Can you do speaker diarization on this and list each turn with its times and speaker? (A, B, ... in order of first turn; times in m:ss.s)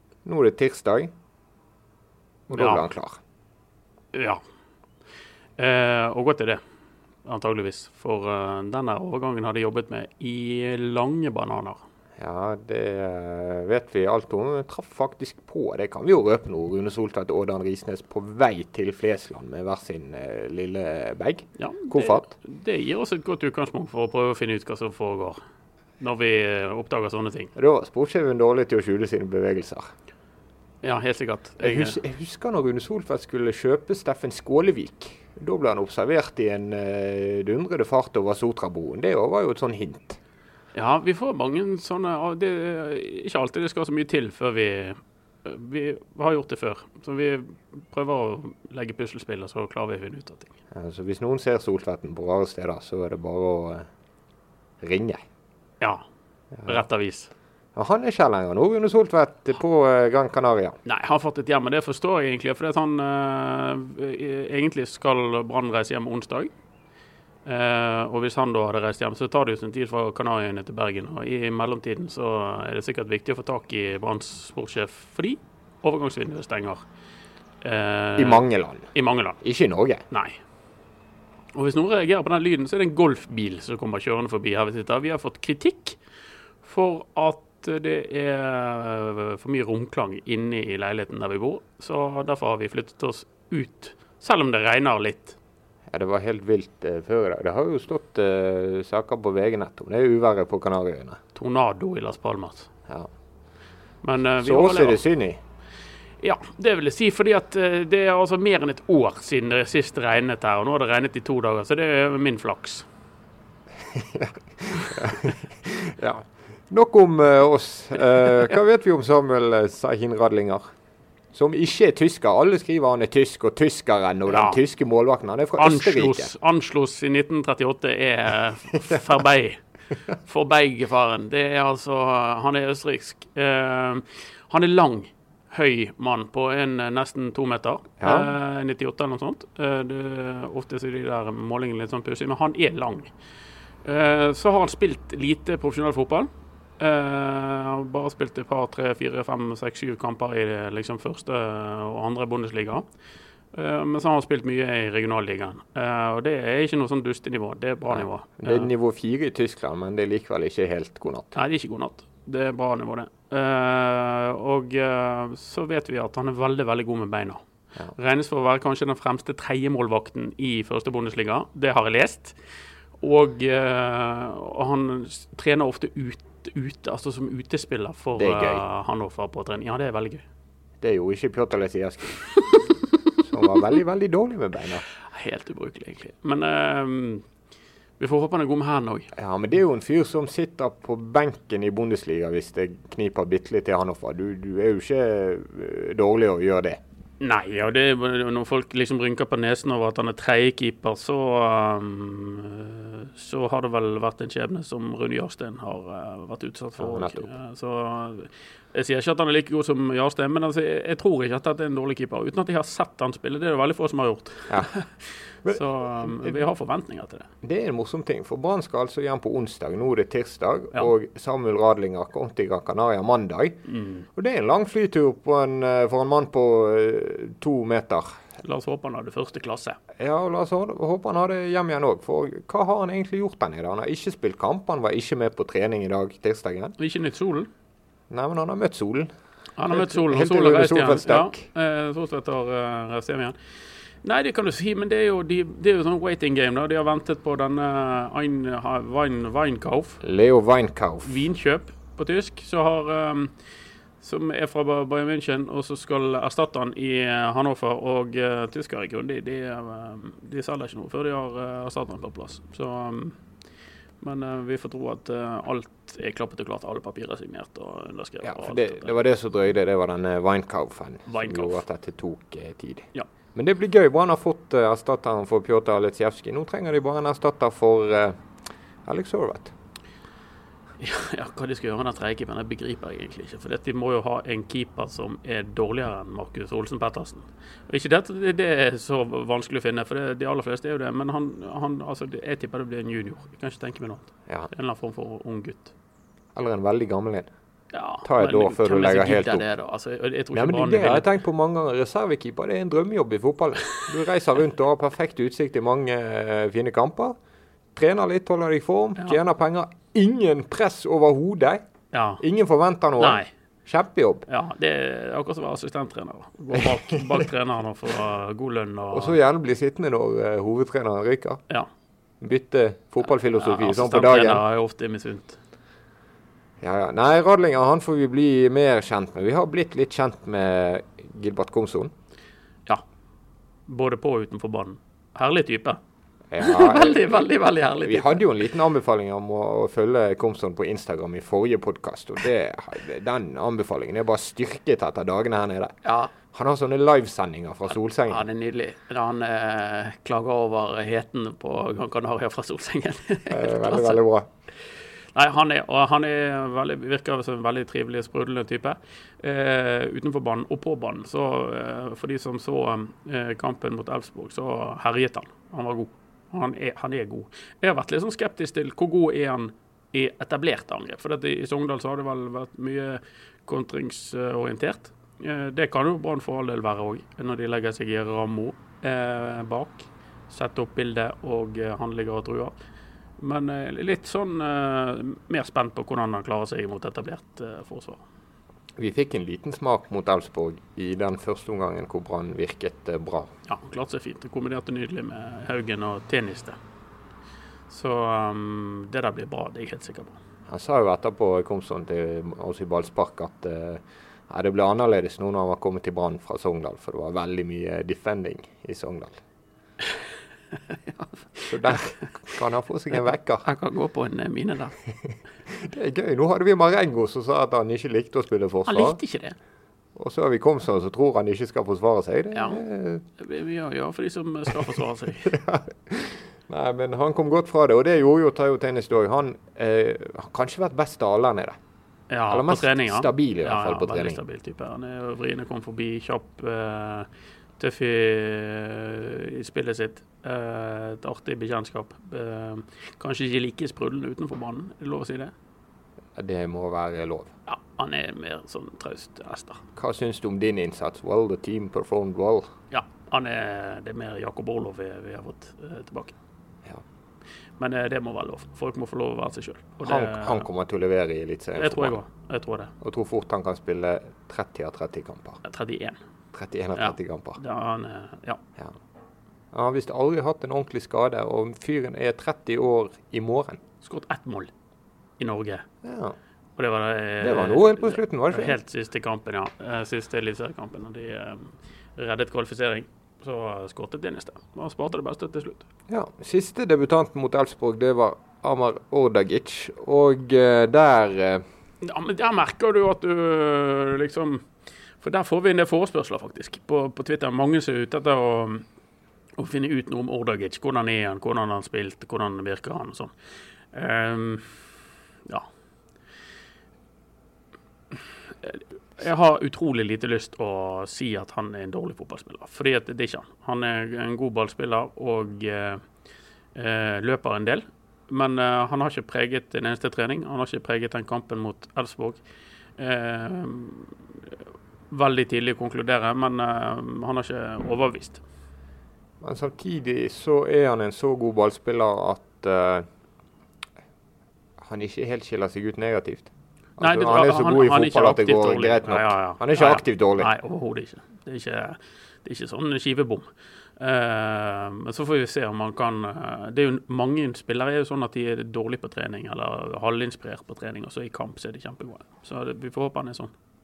0:00.2-0:01.1 A
0:02.5-0:03.2 A
0:02.5-0:02.8 B
0:04.1-0:04.4 B
0:05.6-0:06.6 B
0:07.2-0:11.8 B
0:12.2-0:22.3 A
0:21.6-0:25.4 B
0:26.0-0:27.5 B
0:27.6-0:29.8 A
0:30.8-0:32.0 B
0:31.6-0:40.2 A
0:40.7-0:50.5 B
0:50.7-0:53.9 A
0:54.8-0:55.2 A
0:56.6-0:57.3 B
0:57.8-1:00.8 A
1:00.8-1:06.5 B
1:07.4-1:16.8 B
1:17.6-1:19.4 B
1:18.2-1:20.0 A
1:20.1-1:20.4 B
1:21.5-1:26.0 B
1:26.6-1:35.4 B
1:35.9-1:41.2 A
1:41.3-1:42.7 B
1:44.0-1:45.0 B
1:44.4-1:45.4 A
1:46.2-1:52.8 B
1:53.9-2:00.6 A
2:01.3-2:06.3 A
2:04.3-2:04.6 B
2:05.6-2:09.6 B
2:10.2-2:23.1 B
2:18.0-2:18.3 A
2:23.8-2:26.3 B
2:26.8-2:32.8 B
2:33.5-2:38.7 B
2:37.9-2:41.3 A
2:41.3-2:47.4 B
2:48.0-2:52.4 B
2:53.0-3:00.2 B
2:58.2-2:58.6 A
3:00.8-3:02.2 A
3:03.2-3:04.8 A
3:05.1-3:07.2 B
3:08.0-3:09.1 B
3:09.1-3:16.8 A
3:17.2-3:37.3 B
3:26.8-3:27.3 A
3:35.4-3:36.4 A
3:37.4-3:43.6 A
3:43.6-3:44.1 B
3:44.1-3:48.1 A
3:48.4-3:49.8 B
3:50.0-3:56.7 A
3:56.8-3:57.5 B
3:58.1-3:59.1 A
3:59.6-4:03.4 B
3:59.7-4:01.4 A
4:04.0-4:10.0 B
4:10.0-4:11.2 A
4:11.0-4:13.3 B
4:14.0-4:23.2 B
4:24.0-4:28.9 B
4:28.2-4:38.2 A
4:31.0-4:31.6 B
4:38.8-4:39.5 A
4:40.8-4:55.7 B
4:56.3-4:57.3 A
4:57.7-5:01.1 B
4:58.0-4:59.4 A
5:00.3-5:07.2 A
5:07.7-5:11.6 A
5:11.9-5:12.2 B
5:12.2-5:14.2 A
5:13.0-5:13.3 B
5:14.3-5:19.2 B
5:16.5-5:17.2 A
5:18.9-5:21.4 A
5:22.2-5:24.4 A
5:23.2-5:25.4 B
5:26.6-5:31.9 A
5:33.7-5:35.8 B
5:36.3-5:37.0 A
5:36.4-5:38.2 B
5:37.8-5:48.3 A
5:45.8-5:46.1 B
5:48.1-5:54.0 B
5:53.3-5:54.3 A
5:55.1-6:22.5 B
6:23.2-6:28.0 B
6:28.8-6:33.3 A
6:33.5-6:36.6 B
6:37.7-6:40.2 B
6:40.5-6:49.2 A
6:50.9-6:51.9 B
6:51.5-6:53.4 A
6:53.4-6:54.8 B
6:55.5-6:59.0 A
6:58.7-6:59.4 B
7:00.0-7:03.0 A
7:02.3-7:02.6 B
7:03.2-7:05.3 B
7:05.2-7:11.6 A
7:12.1-7:25.3 B
7:12.3-7:14.2 A
7:26.2-7:27.3 A
7:27.5-7:29.6 B
7:29.8-7:32.5 A
7:32.7-7:36.1 B
7:37.6-7:40.5 B
7:39.8-7:42.0 A
7:41.6-7:42.7 B
7:42.8-7:45.4 A
7:45.4-7:46.0 B
7:46.3-7:47.4 A
7:46.8-7:48.4 B
7:49.5-7:53.6 A
7:53.8-7:54.5 B
7:55.2-7:55.6 B
7:55.8-7:56.2 A
7:56.6-8:05.6 B
7:57.2-7:58.5 A
8:05.9-8:11.4 A
8:11.8-8:14.4 B
8:15.0-8:18.6 B
8:19.4-8:23.1 B
8:23.7-8:24.5 B
8:28.4-8:35.8 B
8:36.5-8:42.2 B
8:42.8-8:43.9 B
8:44.9-8:48.2 B
8:49.2-8:52.9 A
8:54.6-9:00.3 A
8:56.8-9:03.2 B
9:03.8-9:13.3 B